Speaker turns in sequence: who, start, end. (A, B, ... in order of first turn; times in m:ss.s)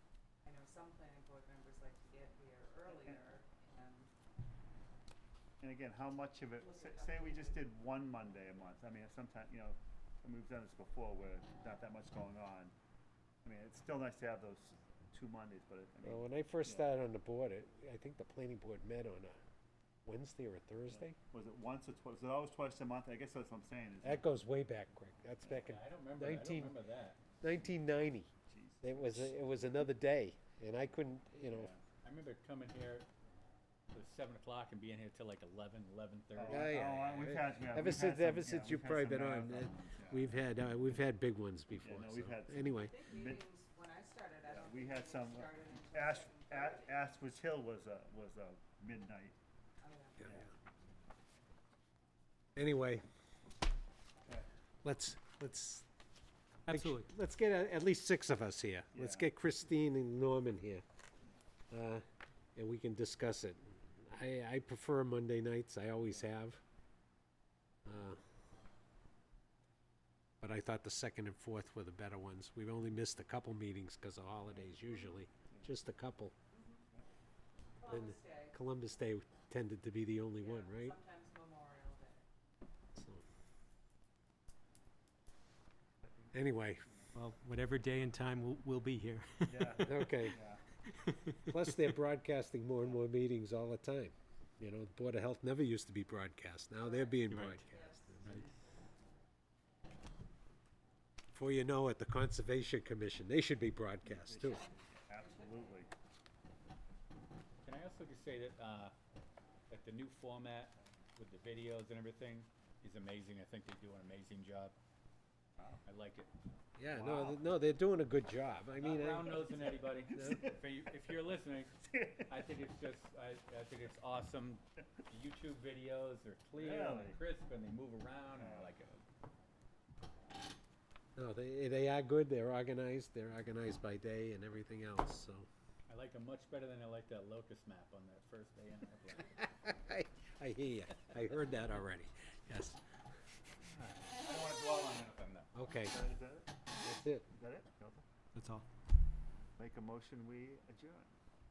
0:00.4-0:04.1 A
0:02.9-0:03.2 B
0:05.6-0:12.7 B
0:06.6-0:07.6 A
0:13.4-0:16.9 B
0:16.0-0:19.4 C
0:20.0-0:21.2 C
0:20.9-0:24.3 B
0:24.0-0:26.8 C
0:25.4-0:27.2 D
0:27.4-0:28.3 C
0:28.5-0:29.4 B
0:28.8-0:31.7 C
0:31.5-0:31.8 B
0:32.0-0:33.1 D
0:33.9-0:36.8 D
0:36.3-0:40.4 B
0:36.5-0:42.9 C
0:41.8-0:43.4 B
0:42.8-0:47.1 A
0:44.4-0:49.4 B
0:49.8-0:50.4 A
0:50.2-0:50.5 B
0:52.6-0:53.0 C
0:54.8-0:55.8 C
0:56.7-0:57.1 E
0:56.7-1:00.8 C
0:58.9-0:59.3 B
1:01.7-1:02.0 C
1:02.6-1:06.6 C
1:07.8-1:08.2 C
1:10.4-1:16.3 C
1:14.4-1:15.7 B
1:16.5-1:16.8 A
1:17.8-1:18.6 A
1:17.9-1:21.0 C
1:20.4-1:22.3 A
1:23.0-1:23.2 C
1:26.3-1:26.9 C
1:27.1-1:30.3 E
1:29.5-1:30.6 B
1:29.8-1:30.4 C
1:30.8-1:31.6 E
1:31.4-1:38.4 C
1:36.8-1:38.7 A
1:37.3-1:37.6 D
1:41.3-1:44.7 C
1:44.0-1:45.9 B
1:44.4-1:45.8 A
1:47.6-1:48.9 D
1:49.7-1:54.7 D
1:55.8-1:56.3 D
1:56.8-1:59.6 C
1:56.9-1:57.5 B
1:58.7-2:09.0 D
1:59.6-2:00.9 B
2:00.2-2:00.5 C
2:01.8-2:02.4 B
2:06.5-2:07.2 B
2:08.3-2:08.7 B
2:11.2-2:15.5 C
2:15.9-2:19.4 D
2:19.4-2:22.8 C
2:23.6-2:25.5 D
2:25.5-2:26.0 C
2:25.7-2:26.6 B
2:26.8-2:27.2 C
2:27.3-2:28.0 B
2:28.3-2:28.6 E
2:29.6-2:31.1 B